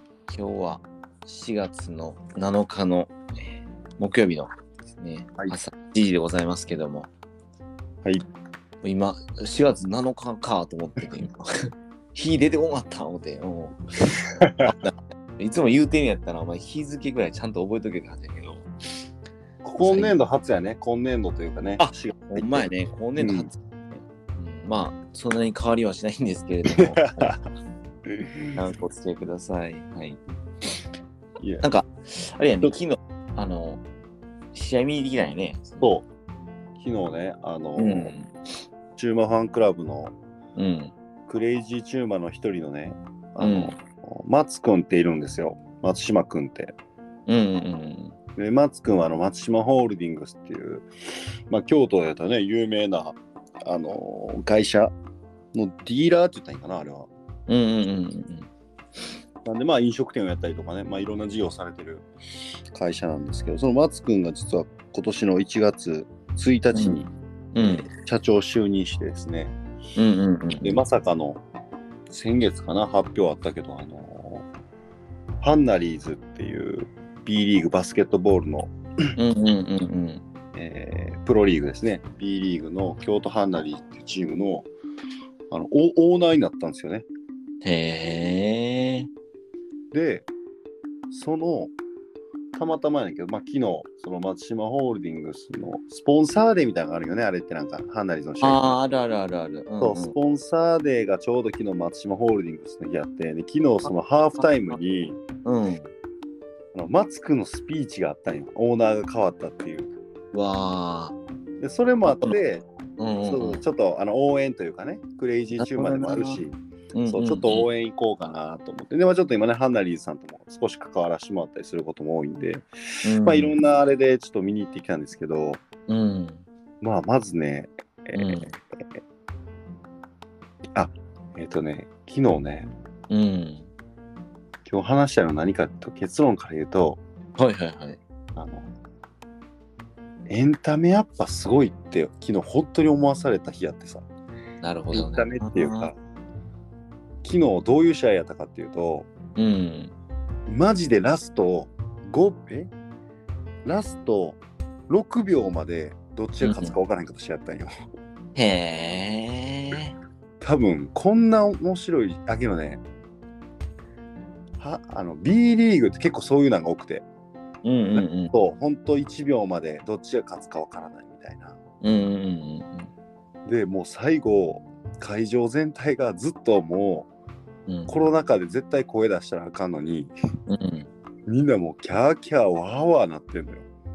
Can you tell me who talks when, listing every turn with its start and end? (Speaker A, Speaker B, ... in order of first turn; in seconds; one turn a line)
Speaker A: 0.3-7.1
Speaker A: 8.8-11.5
Speaker A: 12.1-18.7
Speaker B: 14.4-14.7
Speaker B: 19.6-23.5
Speaker A: 19.8-20.1
Speaker A: 21.8-27.3
Speaker B: 26.7-27.4
Speaker B: 28.1-28.6
Speaker A: 28.6-30.2
Speaker B: 31.4-31.6
Speaker A: 31.6-33.8
Speaker A: 34.5-35.9
Speaker B: 35.8-36.0
Speaker B: 36.8-38.1
Speaker A: 37.8-38.3
Speaker B: 39.0-40.1
Speaker A: 40.5-40.9
Speaker B: 41.3-46.7
Speaker A: 43.4-43.7
Speaker A: 47.3-48.1
Speaker B: 48.4-50.9
Speaker B: 51.5-54.9
Speaker B: 55.5-57.1
Speaker A: 57.5-58.5
Speaker B: 59.4-62.1
Speaker B: 62.7-69.5
Speaker A: 66.7-67.9
Speaker A: 70.0-70.8
Speaker B: 70.6-71.4
Speaker B: 72.1-74.5
Speaker B: 75.4-78.7
Speaker A: 79.2-80.2
Speaker B: 80.5-84.7
Speaker B: 85.5-87.0
Speaker A: 87.6-89.1
Speaker B: 89.9-90.3
Speaker B: 91.1-91.7
Speaker B: 92.5-98.8
Speaker A: 98.4-100.1
Speaker B: 99.8-105.2
Speaker A: 104.4-104.8
Speaker A: 105.4-105.9
Speaker B: 106.7-109.9
Speaker A: 110.3-111.2
Speaker B: 111.6-112.6
Speaker A: 112.0-112.4
Speaker A: 113.0-113.6
Speaker B: 113.2-125.6
Speaker A: 115.6-116.4
Speaker A: 116.9-117.7
Speaker A: 123.0-123.5
Speaker A: 125.9-126.4
Speaker B: 126.8-129.0
Speaker A: 128.1-128.5
Speaker B: 130.7-132.7
Speaker A: 133.1-133.7
Speaker B: 134.7-137.0
Speaker A: 137.4-138.0
Speaker B: 138.3-138.7
Speaker B: 140.3-144.0
Speaker A: 144.6-145.9
Speaker B: 144.9-145.9
Speaker B: 147.2-149.1
Speaker A: 149.3-149.9
Speaker B: 150.5-152.7
Speaker B: 153.6-157.7
Speaker A: 156.4-156.7
Speaker A: 158.3-159.9
Speaker B: 160.4-162.8
Speaker B: 164.6-167.0
Speaker A: 167.6-168.3
Speaker B: 167.9-171.6
Speaker A: 171.8-172.9
Speaker B: 173.4-177.1
Speaker A: 177.7-177.9
Speaker B: 177.9-180.1
Speaker A: 180.5-180.9
Speaker B: 181.3-183.7